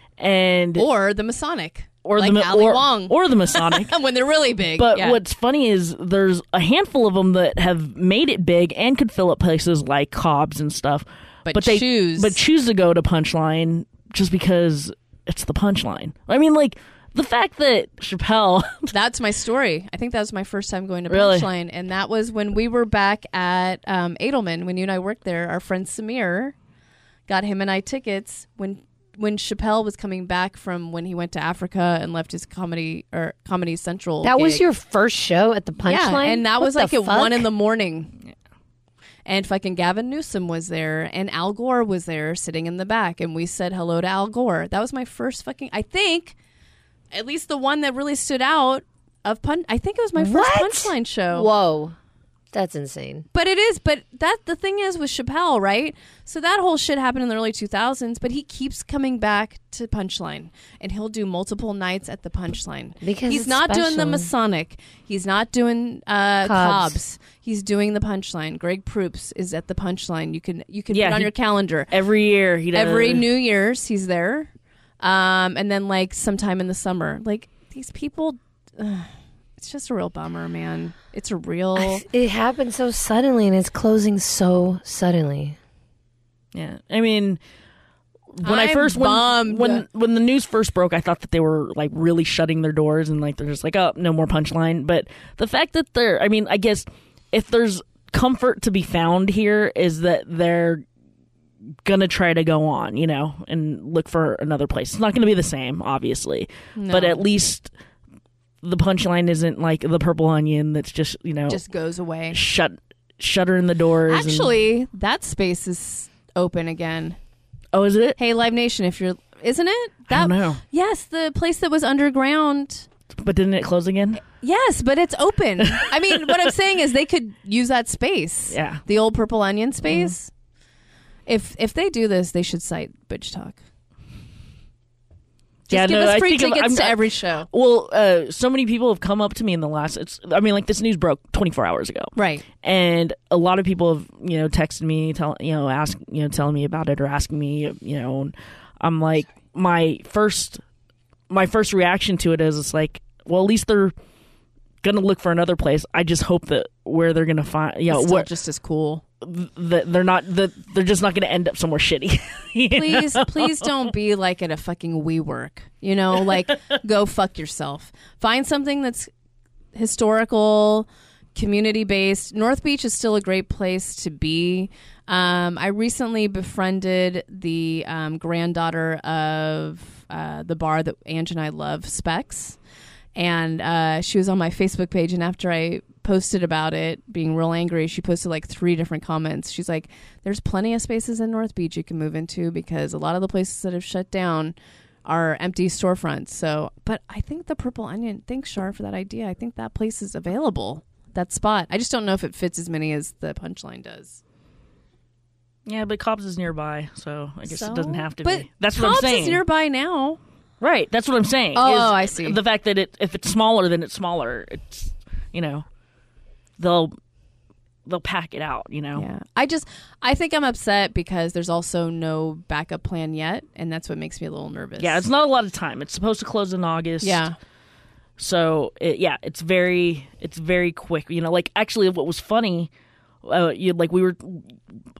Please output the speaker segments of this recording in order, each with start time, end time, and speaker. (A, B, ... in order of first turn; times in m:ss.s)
0:00.2-0:00.8 A
0:00.8-0:05.2 B
0:02.0-0:04.0 A
0:04.8-0:18.9 A
0:11.4-0:12.4 B
0:18.9-0:26.5 B
0:21.1-0:21.5 A
0:27.3-0:34.6 B
0:34.2-0:37.5 C
0:35.9-0:38.1 B
0:39.2-0:46.4 B
0:47.1-0:51.5 B
0:50.2-0:51.9 C
0:52.5-0:53.2 C
0:53.3-1:11.9 B
1:03.0-1:04.3 C
1:06.4-1:07.0 C
1:10.9-1:11.3 A
1:11.9-1:13.2 A
1:12.7-1:22.0 B
1:21.8-1:25.6 C
1:26.5-1:27.4 A
1:28.4-1:40.8 A
1:28.4-1:29.8 B
1:41.8-1:47.7 A
1:46.8-1:47.2 B
1:48.6-1:51.6 A
1:51.5-1:52.4 B
1:52.3-1:54.5 A
1:54.1-1:57.2 B
1:57.7-1:58.2 A
1:58.2-2:02.9 B
2:00.1-2:00.6 A
2:03.2-2:04.2 A
2:04.3-2:10.3 B
2:05.7-2:06.3 A
2:08.5-2:08.8 A
2:09.9-2:10.1 A
2:11.3-2:13.6 B
2:15.7-2:17.5 B
2:15.7-2:30.6 A
2:22.2-2:22.4 B
2:31.3-2:33.9 A
2:34.8-2:38.3 A
2:37.9-2:39.0 B
2:39.2-2:43.7 A
2:42.7-2:49.1 B
2:49.7-3:02.6 B
3:03.1-3:14.5 B
3:15.0-3:24.2 B
3:25.6-3:29.4 A
3:27.4-3:30.2 B
3:30.6-3:35.6 A
3:31.5-3:32.4 B
3:36.6-3:36.9 A
3:37.8-3:39.0 A
3:39.0-3:45.0 B
3:44.8-3:47.2 A
3:47.0-3:47.4 B
3:48.2-3:52.7 A
3:53.2-3:54.6 A